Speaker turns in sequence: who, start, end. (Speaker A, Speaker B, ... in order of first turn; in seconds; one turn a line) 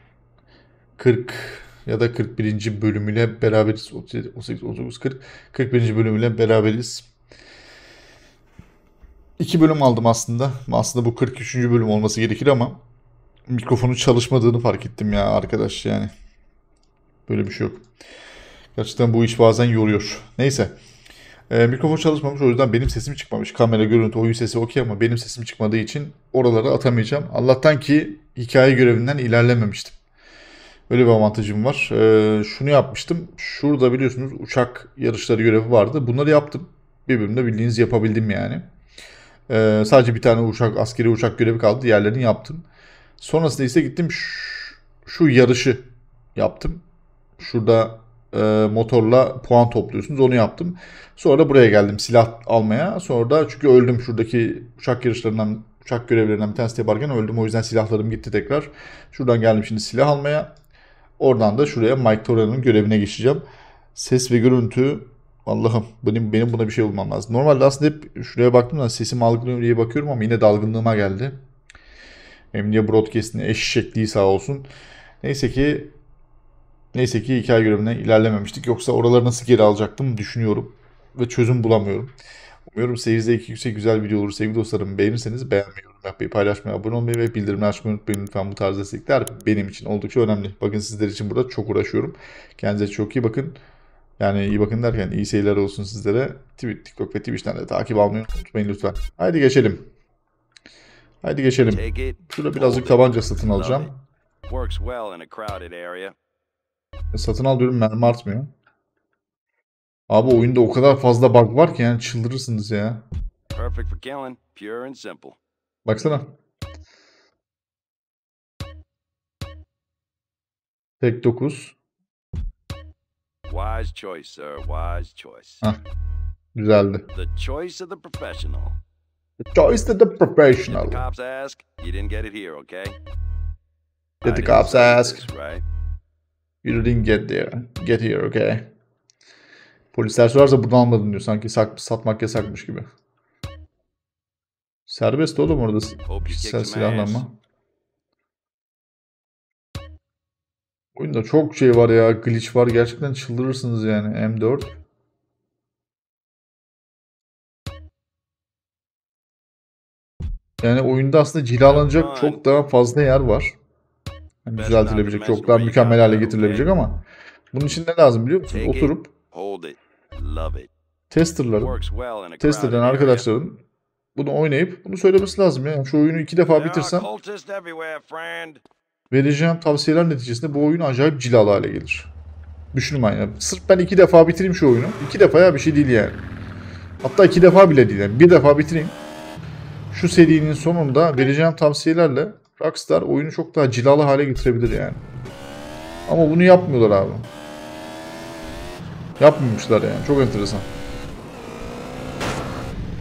Speaker A: 1.0-7.1
Speaker A: 9.4-12.8
Speaker A: 13.5-16.1
Speaker A: 17.3-17.9
Speaker A: 18.8-20.8
Speaker A: 21.5-30.0
Speaker A: 30.9-38.7
Speaker A: 39.5-42.6
Speaker A: 43.2-46.9
Speaker A: 47.4-60.5
Speaker A: 61.2-71.4
Speaker A: 72.5-74.7
Speaker A: 75.2-76.0
Speaker A: 76.9-82.1
Speaker A: 82.7-93.6
Speaker A: 94.2-99.9
Speaker A: 101.2-104.0
Speaker B: 101.6-103.9
Speaker B: 104.5-106.2
Speaker A: 107.1-108.5
Speaker A: 110.1-113.0
Speaker B: 113.5-115.4
Speaker A: 115.8-116.3
Speaker A: 121.0-121.8
Speaker B: 123.5-125.6
Speaker A: 126.5-127.1
Speaker B: 127.1-128.8
Speaker A: 129.5-131.0
Speaker B: 130.7-133.0
Speaker A: 134.2-135.3
Speaker B: 134.2-135.6
Speaker A: 136.6-138.7
Speaker A: 139.9-142.9
Speaker A: 144.9-147.3
Speaker B: 146.1-147.3
Speaker A: 151.0-154.8
Speaker A: 160.6-163.6
Speaker B: 161.6-162.4
Speaker A: 164.4-169.1
Speaker B: 164.6-166.7
Speaker B: 168.5-170.7
Speaker A: 171.1-171.8
Speaker B: 171.6-173.3
Speaker A: 172.4-173.6
Speaker A: 174.2-177.1
Speaker B: 176.5-178.6
Speaker A: 179.1-182.1
Speaker A: 182.7-186.2
Speaker A: 187.0-189.0
Speaker A: 189.9-195.0
Speaker A: 196.1-197.3
Speaker A: 199.2-200.7